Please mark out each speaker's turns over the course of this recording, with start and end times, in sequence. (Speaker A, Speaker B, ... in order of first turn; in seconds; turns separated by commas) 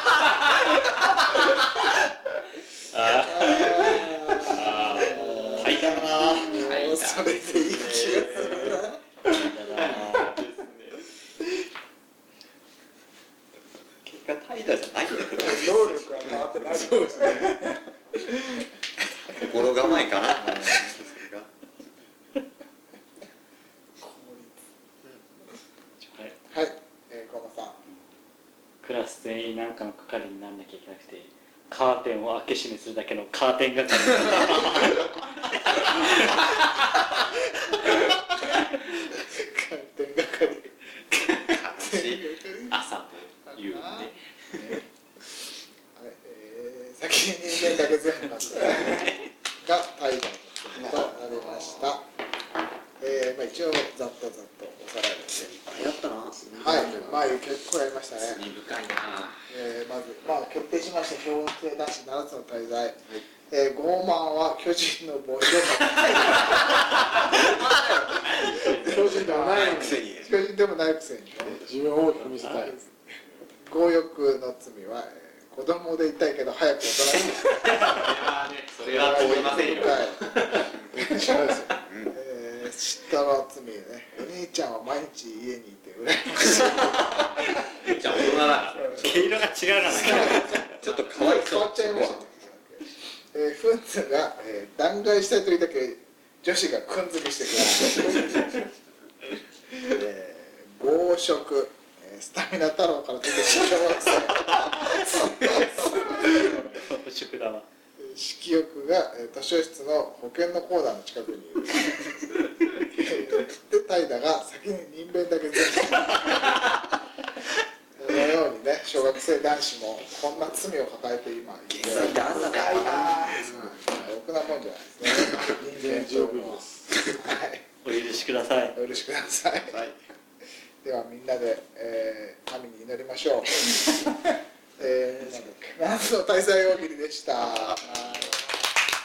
Speaker A: 2.9-6.0, Speaker B: 3.3-9.0, Speaker C: 5.0-5.6, Speaker D: 5.6-6.7, Speaker A: 6.5-8.8, Speaker C: 9.2-10.4, Speaker A: 9.7-11.0, Speaker D: 14.0-17.1, Speaker E: 15.3-17.8, Speaker D: 19.3-21.5, Speaker B: 24.0-24.6, Speaker C: 26.0-26.4, Speaker B: 26.5-27.8, Speaker C: 28.8-35.0, Speaker B: 37.6-41.2, Speaker D: 41.5-42.4, Speaker B: 41.8-42.7, Speaker A: 42.7-44.7, Speaker B: 43.5-44.1, Speaker B: 45.9-52.0, Speaker B: 53.0-55.5, Speaker D: 55.5-56.5, Speaker F: 56.4-57.4, Speaker B: 56.6-58.5, Speaker A: 58.2-59.4, Speaker B: 59.5-63.0, Speaker B: 63.5-66.7, Speaker B: 67.4-68.0, Speaker A: 68.1-69.2, Speaker F: 68.8-70.0, Speaker D: 69.2-70.3, Speaker B: 70.2-71.6, Speaker F: 71.5-72.8, Speaker B: 73.7-77.8, Speaker A: 77.7-80.7, Speaker B: 78.9-80.3, Speaker B: 80.9-87.2, Speaker F: 81.1-81.7, Speaker A: 87.7-90.9, Speaker C: 88.9-90.7, Speaker B: 90.0-90.6, Speaker D: 90.5-92.2, Speaker B: 91.2-98.6, Speaker B: 99.8-106.0, Speaker C: 106.2-107.7, Speaker B: 108.0-112.3, Speaker B: 112.9-116.5, Speaker B: 118.0-122.4, Speaker D: 121.7-123.4, Speaker E: 122.3-123.5, Speaker F: 123.3-124.1, Speaker B: 123.5-127.6, Speaker F: 125.2-127.2, Speaker C: 127.8-128.8, Speaker B: 128.7-129.8, Speaker D: 129.7-130.0, Speaker B: 130.8-134.2, Speaker B: 134.8-138.4